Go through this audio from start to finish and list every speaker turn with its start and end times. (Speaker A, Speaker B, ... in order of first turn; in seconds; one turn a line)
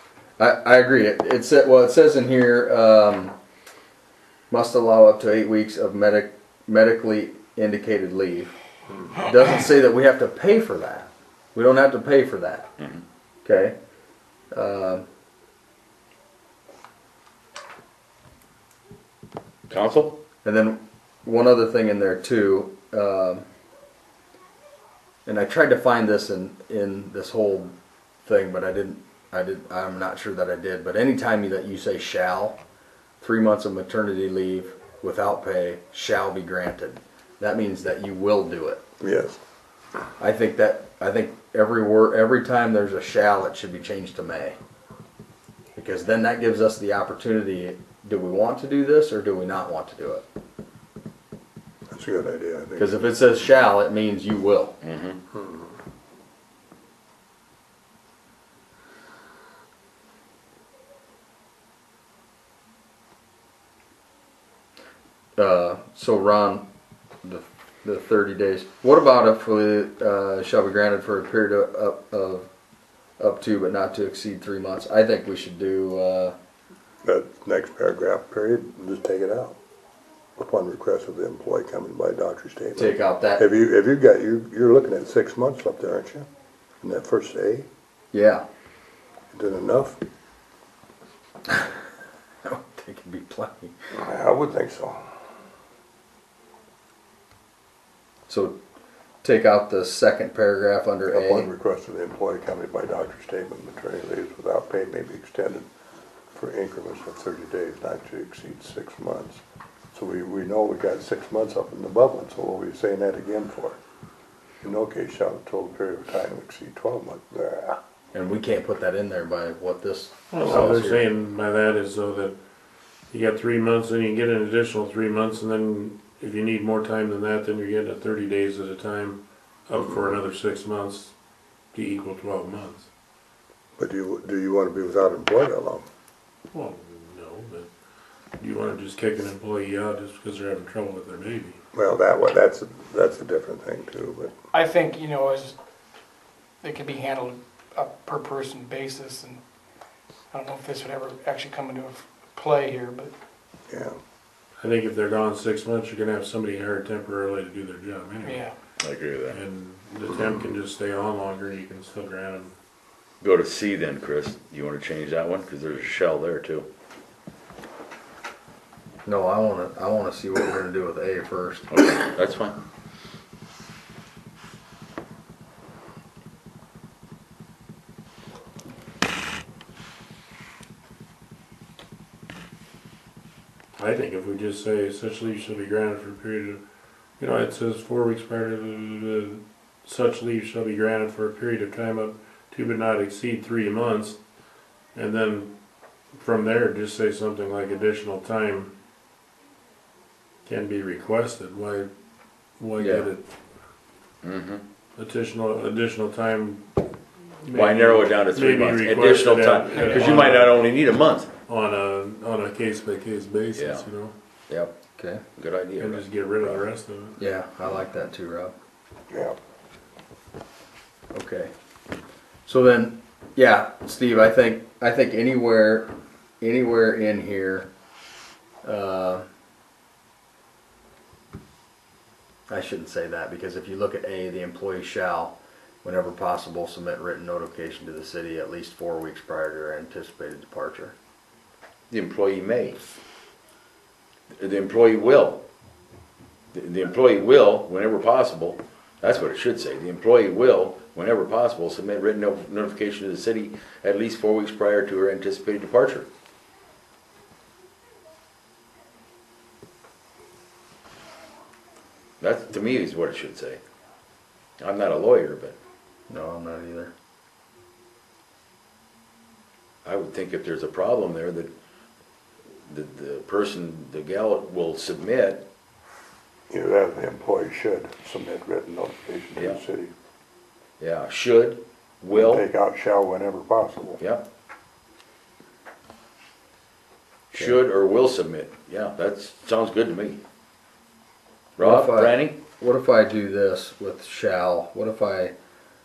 Speaker A: 0.4-3.3
Speaker A: 4.5-8.5
Speaker A: 9.1-12.7
Speaker A: 13.4-13.8
Speaker A: 14.5-15.1
Speaker B: 19.7-20.2
Speaker A: 20.4-23.4
Speaker A: 25.2-32.6
Speaker A: 33.2-38.8
Speaker C: 39.0-39.4
Speaker A: 40.2-44.5
Speaker A: 45.8-50.2
Speaker C: 51.9-53.1
Speaker A: 52.8-54.8
Speaker B: 54.8-55.2
Speaker C: 55.3-55.7
Speaker A: 65.4-66.7
Speaker A: 67.2-72.5
Speaker A: 73.2-76.3
Speaker C: 77.0-79.6
Speaker C: 80.4-86.3
Speaker A: 82.8-83.4
Speaker C: 86.8-87.7
Speaker A: 88.1-88.4
Speaker C: 89.3-90.0
Speaker A: 92.4-93.7
Speaker C: 93.9-95.0
Speaker A: 98.3-98.6
Speaker A: 99.2-101.5
Speaker C: 101.1-105.7
Speaker C: 106.3-109.4
Speaker C: 109.9-113.8
Speaker C: 114.6-117.8
Speaker A: 118.1-121.0
Speaker D: 120.3-122.4
Speaker D: 123.1-131.1
Speaker D: 131.7-132.9
Speaker C: 133.8-135.8
Speaker D: 136.5-137.7
Speaker D: 138.4-141.6
Speaker C: 141.7-144.3
Speaker E: 144.5-145.6
Speaker E: 146.6-149.4
Speaker E: 150.3-153.1
Speaker C: 153.7-154.0
Speaker D: 154.6-158.5
Speaker B: 158.8-159.4
Speaker D: 159.3-162.5
Speaker B: 163.2-166.7
Speaker A: 169.1-171.7
Speaker B: 171.7-172.6
Speaker D: 183.8-186.6
Speaker D: 187.2-194.2
Speaker D: 194.9-195.5
Speaker D: 196.1-198.7
Speaker D: 200.4-201.9
Speaker D: 202.6-203.2
Speaker A: 202.8-203.1
Speaker B: 204.2-204.6
Speaker D: 204.9-206.8
Speaker D: 207.4-210.6
Speaker B: 207.5-211.3
Speaker D: 211.5-214.1
Speaker B: 213.5-213.9
Speaker B: 214.5-214.8
Speaker A: 215.0-215.2
Speaker B: 215.3-216.6
Speaker D: 215.8-217.2
Speaker A: 217.2-218.5
Speaker C: 219.1-219.4
Speaker A: 221.1-221.5
Speaker A: 222.5-227.7
Speaker A: 228.6-229.2
Speaker A: 232.5-240.9
Speaker B: 241.9-242.8
Speaker B: 244.4-245.4
Speaker B: 246.5-256.1
Speaker B: 262.2-263.6
Speaker B: 264.6-265.6
Speaker A: 266.1-266.9
Speaker B: 269.8-271.5
Speaker B: 272.7-275.5
Speaker C: 276.5-279.9
Speaker B: 279.3-279.6
Speaker B: 280.8-282.4
Speaker C: 282.1-284.0
Speaker B: 284.0-284.2
Speaker B: 287.3-290.2
Speaker B: 291.6-292.4
Speaker A: 291.6-295.3